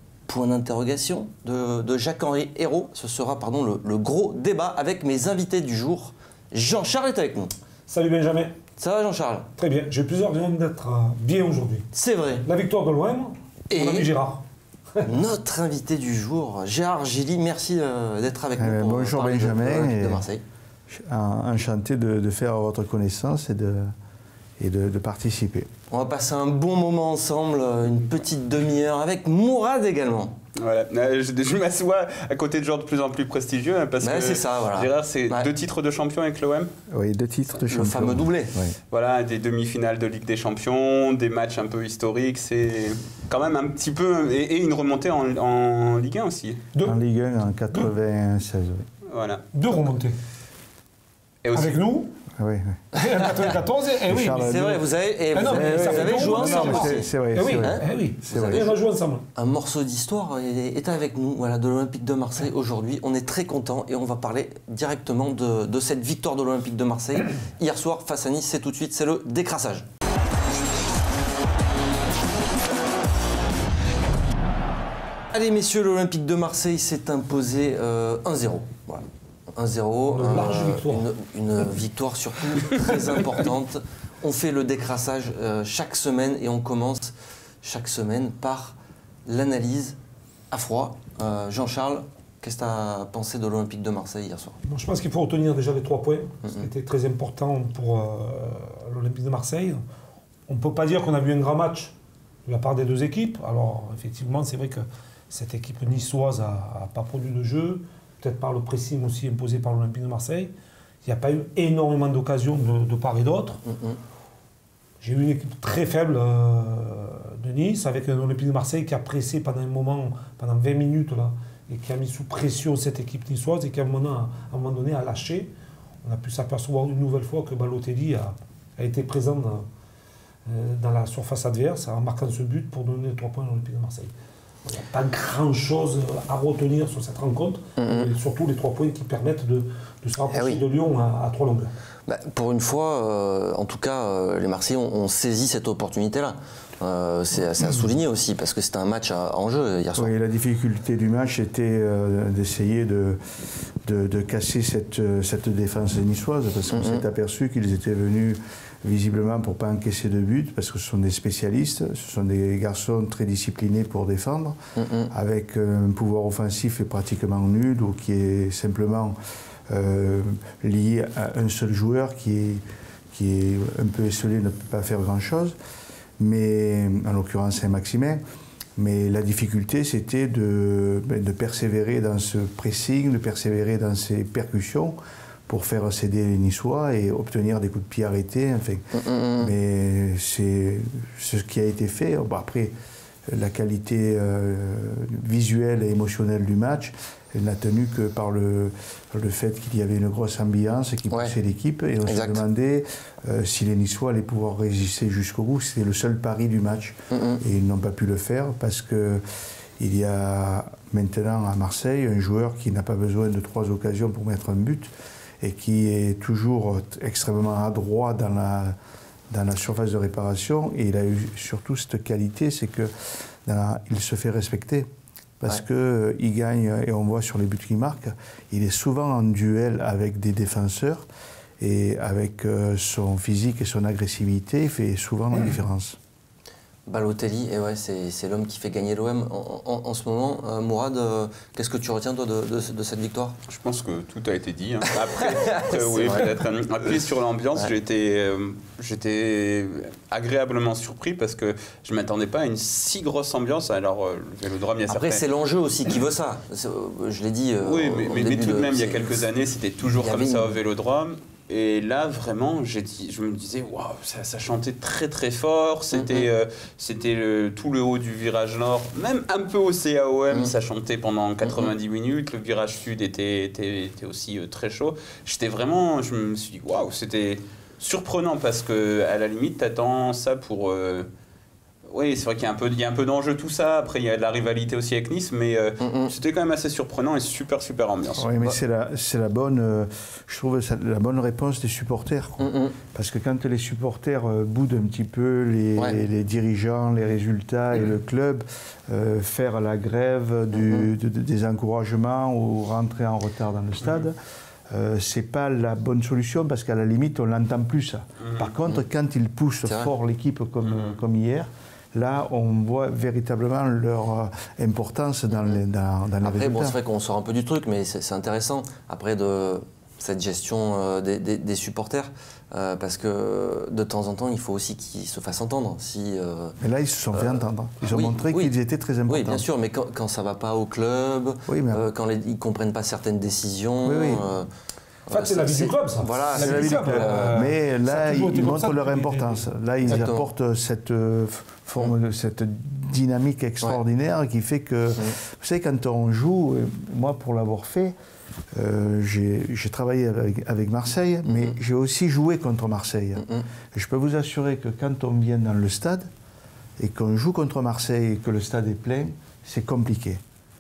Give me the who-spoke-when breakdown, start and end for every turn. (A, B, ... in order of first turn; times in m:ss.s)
0:00.3-0:07.5 A
0:07.9-0:08.6 B
0:08.8-0:09.5 A
0:09.6-0:11.9 B
0:11.9-0:12.5 A
0:12.4-0:14.4 B
0:13.7-0:14.1 A
0:15.0-0:20.4 A
0:18.6-0:20.2 C
0:20.9-0:23.9 C
0:24.6-0:25.7 C
0:25.9-0:30.4 A
0:30.6-0:36.7 D
0:34.0-0:35.5 A
0:36.9-0:38.8 C
0:37.6-0:38.6 A
0:38.9-0:46.6 D
0:46.8-0:48.9 C
0:49.1-0:49.4 D
0:49.5-0:50.2 B
0:51.4-0:51.8 D
0:51.5-0:52.1 B
0:52.4-0:52.8 C
0:52.9-0:54.7 B
0:53.0-0:53.3 A
0:54.1-0:54.8 C
0:54.4-0:58.8 A
0:55.3-0:59.2 B
0:55.4-0:58.7 C
0:59.4-1:09.9 A
1:15.3-1:30.0 A
1:20.1-1:21.1 B
1:30.5-1:34.6 A
1:34.6-1:39.8 B
1:40.5-1:41.9 B
1:42.5-1:50.5 B
1:51.0-1:53.6 B
1:53.7-1:54.0 A
1:55.0-2:05.5 B
2:06.0-2:09.6 B
2:10.5-2:14.1 B
2:14.7-2:21.7 B
2:17.8-2:18.1 A
2:20.3-2:20.6 A
2:22.1-2:30.1 A
2:30.0-2:33.2 C
2:33.8-2:44.6 C
2:36.7-2:37.0 A
2:44.8-2:45.1 A
2:45.1-2:49.2 C
2:49.7-2:55.6 C
2:56.2-2:58.2 C
2:58.8-3:12.7 C
3:08.9-3:09.5 A
3:13.3-3:29.2 C
3:22.1-3:22.4 A
3:27.1-3:27.4 A
3:29.8-3:38.8 C
3:39.3-3:42.9 C
3:43.4-3:44.9 C
3:45.4-3:51.1 C
3:51.6-3:56.0 C
3:56.9-4:03.4 A
4:03.5-4:15.2 D
4:05.2-4:06.3 A
4:14.9-4:19.2 A
4:17.6-4:41.1 D
4:19.9-4:20.6 A
4:25.9-4:26.3 A
4:31.4-4:31.7 A
4:41.9-4:48.4 D
4:45.8-4:46.1 A
4:48.2-5:04.2 C
4:52.4-4:52.8 A
5:00.6-5:00.9 A
5:04.7-5:16.8 C
5:08.2-5:08.5 D
5:09.6-5:09.9 A
5:10.7-5:10.9 D
5:16.2-5:26.6 A
5:26.6-5:29.4 C
5:27.1-5:28.5 A
5:29.1-5:34.5 A
5:31.5-5:31.8 C
5:33.8-5:34.2 C
5:35.1-5:37.5 A
5:35.1-5:39.4 B
5:36.4-5:48.0 C
5:39.9-5:40.3 A
5:48.6-5:56.1 C
5:51.3-5:51.6 A
5:53.2-5:53.5 A
5:56.8-6:00.2 C